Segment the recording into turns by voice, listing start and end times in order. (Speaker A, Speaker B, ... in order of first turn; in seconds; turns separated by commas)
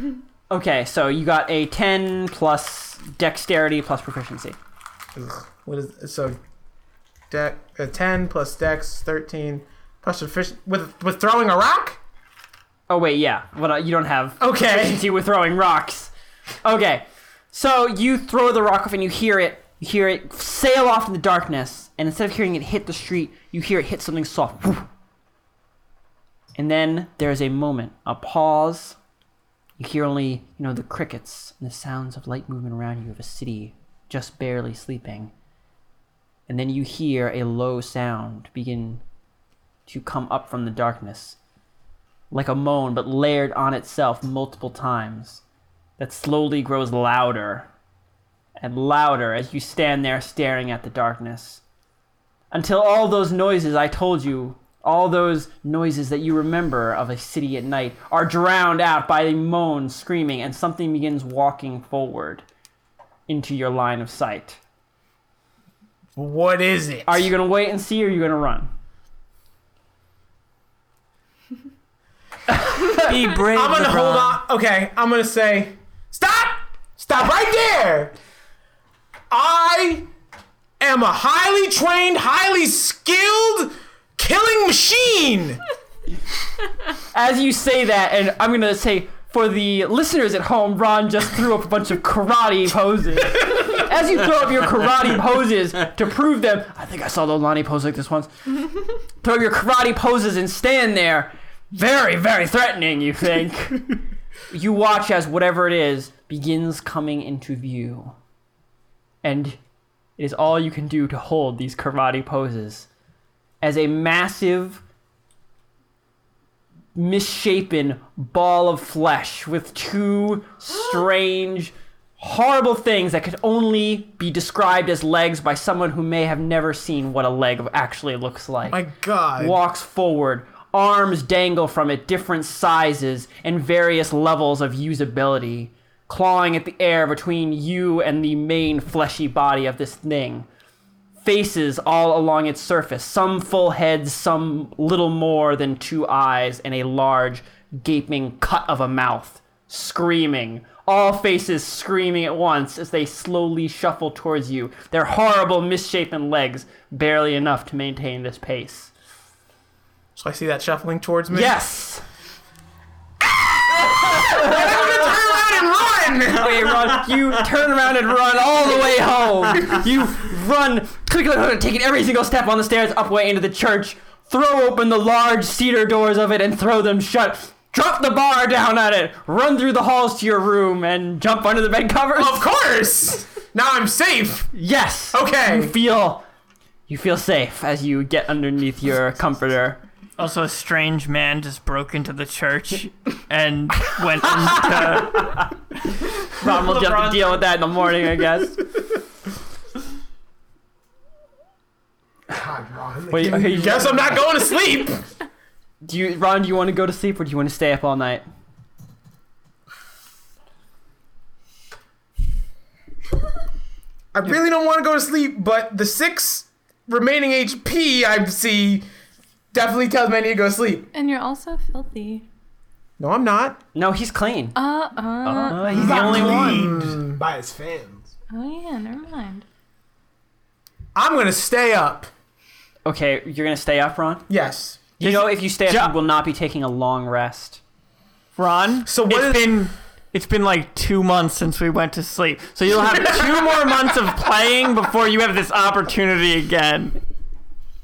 Speaker A: 0.5-4.6, Speaker B: 5.2-6.4, Speaker B: 7.3-12.0, Speaker A: 12.9-16.1, Speaker B: 14.4-15.1, Speaker A: 16.6-24.9, Speaker A: 26.6-29.0, Speaker A: 29.8-35.3, Speaker A: 36.5-39.0, Speaker A: 39.9-41.4, Speaker A: 42.3-45.4, Speaker A: 46.0-47.7, Speaker A: 48.6-51.6, Speaker A: 52.5-62.4, Speaker A: 63.3-64.6, Speaker B: 66.2-67.3, Speaker A: 67.1-68.7, Speaker A: 72.5-74.4, Speaker B: 72.9-78.2, Speaker B: 79.3-80.1, Speaker B: 80.8-85.6, Speaker A: 87.1-98.3, Speaker A: 99.2-104.0, Speaker A: 104.5-108.2, Speaker A: 109.2-109.6, Speaker A: 110.2-112.9, Speaker A: 113.6-114.8, Speaker A: 117.0-128.8, Speaker B: 128.7-129.6, Speaker A: 129.4-140.5, Speaker A: 141.2-158.9, Speaker B: 160.2-161.6, Speaker A: 161.3-162.0, Speaker A: 163.8-165.2, Speaker B: 163.9-166.7, Speaker A: 166.3-182.5, Speaker B: 182.2-184.5, Speaker A: 184.5-186.2, Speaker B: 185.1-185.8, Speaker A: 186.9-189.8, Speaker C: 190.2-195.5, Speaker A: 194.4-195.5, Speaker A: 196.3-198.6, Speaker C: 196.4-197.5, Speaker D: 202.3-204.1, Speaker A: 203.1-204.2, Speaker B: 203.3-205.0, Speaker A: 205.8-208.2, Speaker B: 214.1-218.9, Speaker B: 219.5-220.9, Speaker E: 220.9-222.2, Speaker B: 223.0-223.6, Speaker A: 223.8-224.6, Speaker E: 224.6-225.8, Speaker A: 225.2-226.7, Speaker D: 225.7-228.1, Speaker B: 225.7-227.1, Speaker E: 228.3-229.4, Speaker B: 230.9-232.1, Speaker A: 232.8-234.3, Speaker B: 234.3-234.8, Speaker A: 235.0-237.6, Speaker C: 235.0-235.9, Speaker C: 238.4-247.0, Speaker B: 238.9-239.7